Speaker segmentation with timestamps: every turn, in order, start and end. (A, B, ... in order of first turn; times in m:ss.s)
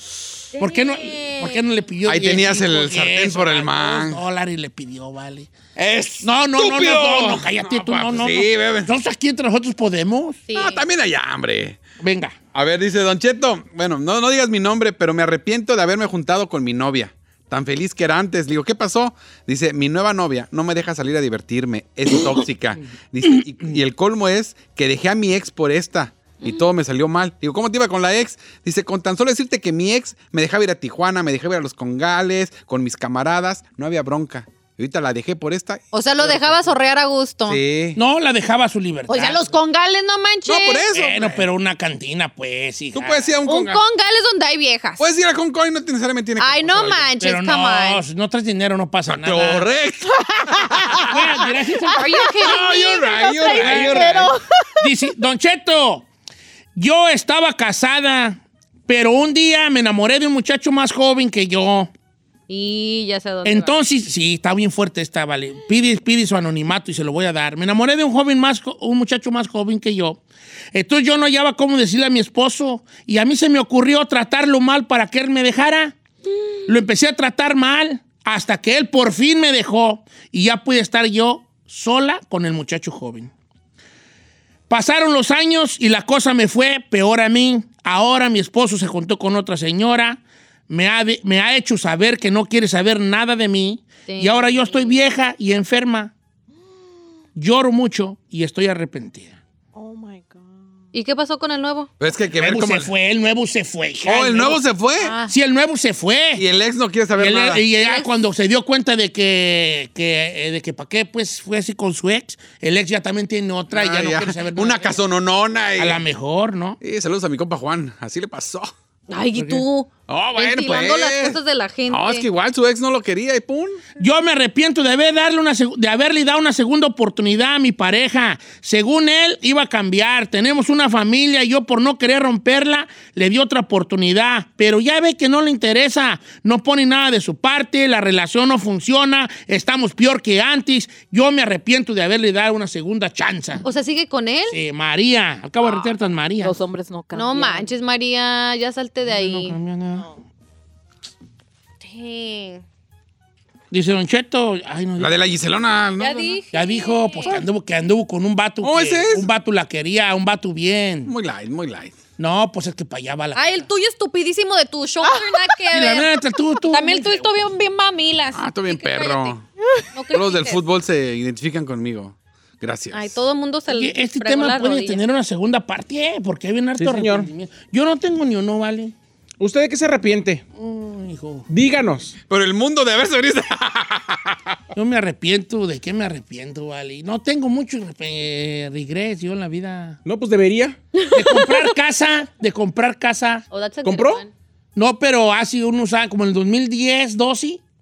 0:00.6-0:01.6 A
0:00.6-0:05.5 B
0:02.0-0:04.2 C
0:05.8-0:08.9 C
0:06.2-0:10.4 B
0:10.5-0:10.8 A
0:10.5-0:11.8 C
0:12.0-0:12.4 B
0:12.5-0:36.7 C
0:35.9-0:37.6 A
0:37.5-0:38.0 C
0:38.0-0:39.4 B
0:39.1-0:40.9 A
0:40.5-0:41.5 C
0:40.9-0:43.3 B
0:42.9-0:43.8 C
0:43.5-0:45.0 A
0:45.0-0:47.1 C
0:46.4-0:48.0 A
0:47.2-0:49.7 B
0:49.1-0:51.1 C
0:50.2-0:51.2 D
0:51.0-0:52.0 B
0:51.8-0:52.2 D
0:52.0-0:54.3 A
0:52.4-0:54.3 C
0:53.3-0:54.9 D
0:53.5-0:54.0 B
0:54.8-0:56.1 B
0:56.8-1:01.9 B
1:02.5-1:03.7 A
1:03.4-1:10.2 B
1:10.7-1:16.0 B
1:16.7-1:23.3 B
1:24.7-1:36.1 B
1:34.1-1:35.0 A
1:37.4-1:39.4 B
1:39.8-1:40.6 D
1:40.9-1:41.9 A
1:42.0-1:42.9 C
1:42.3-1:44.6 B
1:44.0-1:45.2 C
1:45.0-1:45.3 A
1:45.2-1:46.4 B
1:46.4-1:47.6 C
1:47.2-1:55.0 B
1:47.8-1:48.1 A
1:53.7-1:56.0 C
1:55.8-1:56.8 B
1:56.8-1:58.7 C
1:59.1-2:02.2 A
1:59.3-1:59.6 B
2:00.1-2:03.8 C
2:04.0-2:23.6 B
2:23.6-2:24.6 A
2:24.5-2:26.6 B
2:26.4-2:27.7 D
2:27.1-2:29.6 A
2:29.0-2:30.1 B
2:31.8-2:32.6 A
2:33.7-2:35.2 B
2:35.0-2:36.3 C
2:36.0-2:37.4 A
2:36.5-2:41.1 B
2:38.6-2:39.3 C
2:41.0-2:42.0 C
2:42.2-2:43.7 B
2:43.4-2:46.2 A
2:45.0-2:45.4 D
2:45.7-2:47.2 B
2:46.7-2:49.4 A
2:48.3-2:49.4 C
2:49.9-2:50.6 A
2:50.1-2:53.2 C
2:52.9-2:55.0 A
2:53.7-2:59.0 B
2:56.8-2:57.3 E
2:59.4-3:00.4 E
3:00.5-3:01.5 B
3:01.5-3:02.2 E
3:02.3-3:04.6 C
3:04.7-3:10.0 B
3:10.0-3:10.8 E
3:11.0-3:11.5 A
3:11.1-3:13.4 B
3:13.5-3:14.3 A
3:13.8-3:14.2 E
3:14.8-3:17.6 B